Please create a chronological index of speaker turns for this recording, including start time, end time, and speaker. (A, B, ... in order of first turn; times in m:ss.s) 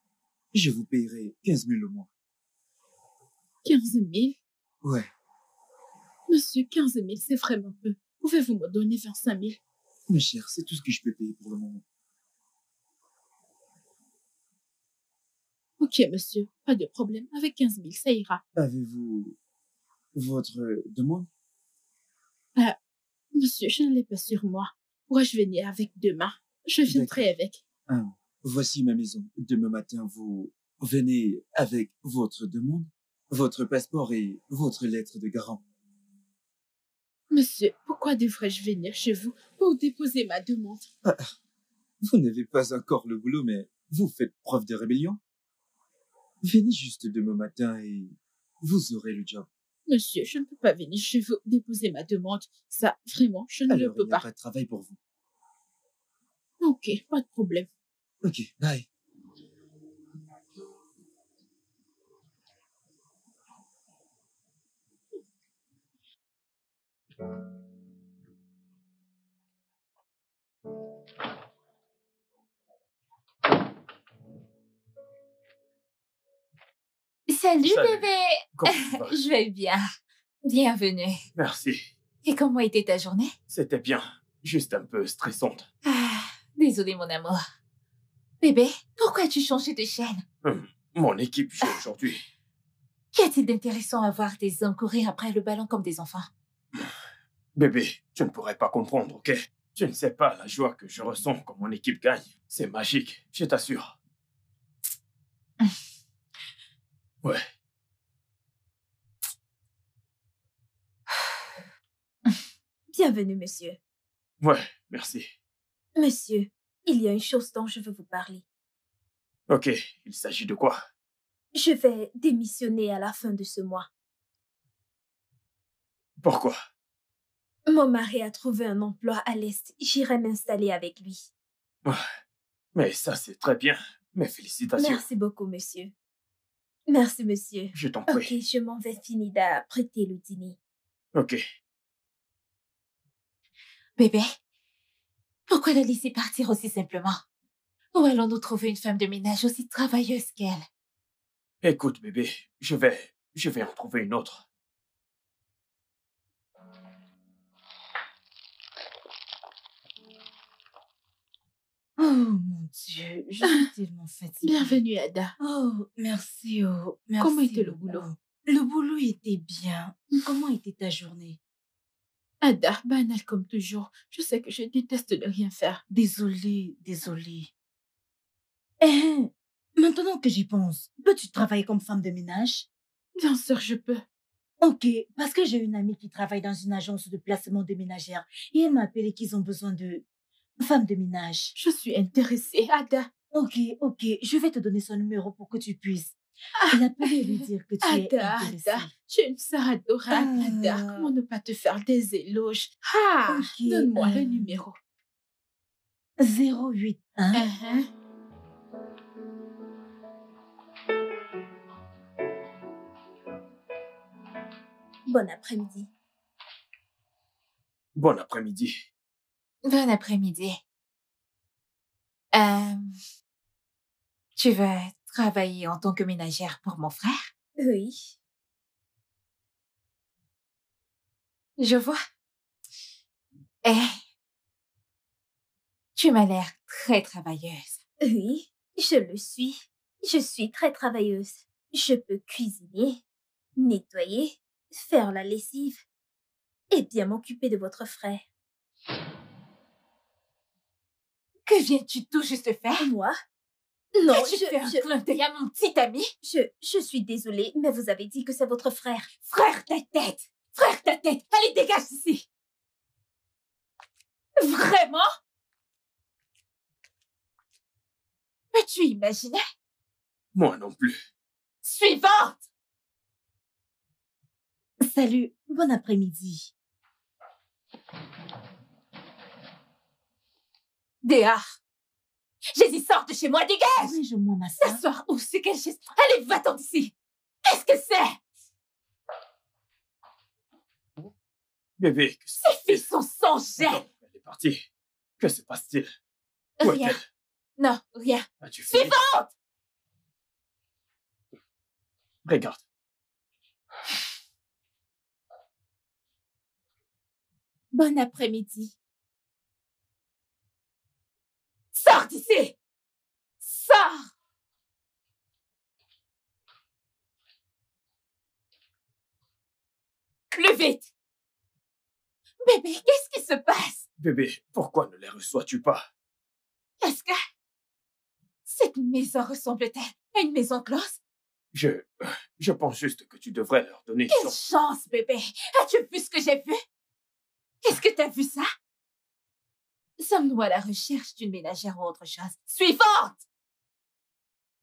0:00.5-0:02.1 A
0:03.6-0:04.4 B
0:04.8-0:05.1 A
0:06.3-0:09.6 B
0:10.1-0:11.8 A
0:15.8-0:18.4 B
0:18.5-0:19.4 A
0:20.1-0:21.3 A
0:23.3-0:27.6 B
0:26.9-0:27.2 A
0:27.9-0:35.6 A
0:37.3-0:40.9 B
0:41.0-0:41.4 A
0:42.0-0:45.2 A
0:46.4-0:49.5 A
0:49.9-0:54.3 B
0:53.7-0:55.0 A
0:56.6-0:57.7 B
0:58.2-0:58.9 A
1:17.3-1:19.8 C
1:17.7-1:18.0 D
1:18.6-1:19.2 D
1:20.4-1:21.2 C
1:21.4-1:21.9 D
1:22.2-1:23.3 C
1:23.5-1:25.7 D
1:25.8-1:27.4 C
1:28.4-1:30.2 C
1:30.4-1:32.2 D
1:33.1-1:36.3 C
1:37.6-1:44.0 D
1:52.9-1:53.8 E
1:54.4-1:55.3 D
1:56.0-1:58.4 E
1:59.5-2:00.8 D
2:01.5-2:03.9 E
2:06.2-2:06.6 D
2:07.7-2:11.3 E
2:12.8-2:15.0 D
2:14.8-2:15.9 E
2:16.9-2:20.6 E
2:17.7-2:18.3 D
2:21.2-2:21.4 D
2:24.0-2:24.3 C
2:25.5-2:27.2 C
2:27.9-2:30.6 C
2:31.6-2:34.4 D
2:42.0-2:44.8 F
2:44.4-2:45.3 B
2:45.4-2:51.4 F
2:47.2-2:48.1 B
2:52.4-2:55.8 B
2:55.9-2:57.5 F
2:58.8-3:02.7 F
3:03.2-3:04.0 B
3:04.6-3:10.0 F
3:10.6-3:11.6 F
3:11.6-3:13.1 B
3:13.3-3:16.2 F
3:16.6-3:24.8 B
3:16.7-3:18.9 F
3:20.1-3:21.1 F
3:23.3-3:24.6 F
3:26.2-3:27.5 F
3:27.3-3:27.9 B
3:35.1-3:35.9 E
3:38.0-3:38.8 D
3:39.6-3:40.6 C
3:42.3-3:43.0 C
3:44.4-3:47.3 C
3:47.6-3:48.2 E
3:51.6-3:52.0 C
3:53.6-3:54.0 C
3:56.0-3:57.8 C
3:58.0-4:03.0 E
4:03.6-4:05.8 E
4:06.7-4:08.2 E
4:11.5-4:12.9 C
4:12.8-4:13.2 E
4:13.9-4:14.9 E
4:14.1-4:16.1 C
4:16.2-4:19.1 E
4:19.2-4:22.3 C
4:24.4-4:25.1 C
4:28.5-4:29.4 C
4:30.4-4:31.0 D
4:31.6-4:32.4 C
4:34.8-4:36.5 F
4:41.0-4:41.4 C
4:42.5-4:44.0 C
4:43.8-4:44.8 F
4:44.6-4:46.9 C
4:47.4-4:48.2 C
4:51.8-4:52.8 D
4:52.4-4:53.8 C
4:53.6-4:54.6 D
4:55.2-4:55.9 D
4:56.6-4:57.0 C
4:56.6-4:57.1 D
4:57.6-4:59.3 C
4:58.4-4:59.1 D
5:02.2-5:02.6 D
5:07.7-5:08.7 C
5:11.8-5:12.6 C
5:13.4-5:14.1 C
5:20.3-5:20.9 C
5:22.4-5:23.8 C
5:24.0-5:25.9 D
5:26.8-5:27.2 C
5:28.5-5:31.0 C
5:31.5-5:34.4 D
5:34.1-5:36.6 C
5:37.6-5:38.5 C
5:40.0-5:43.2 C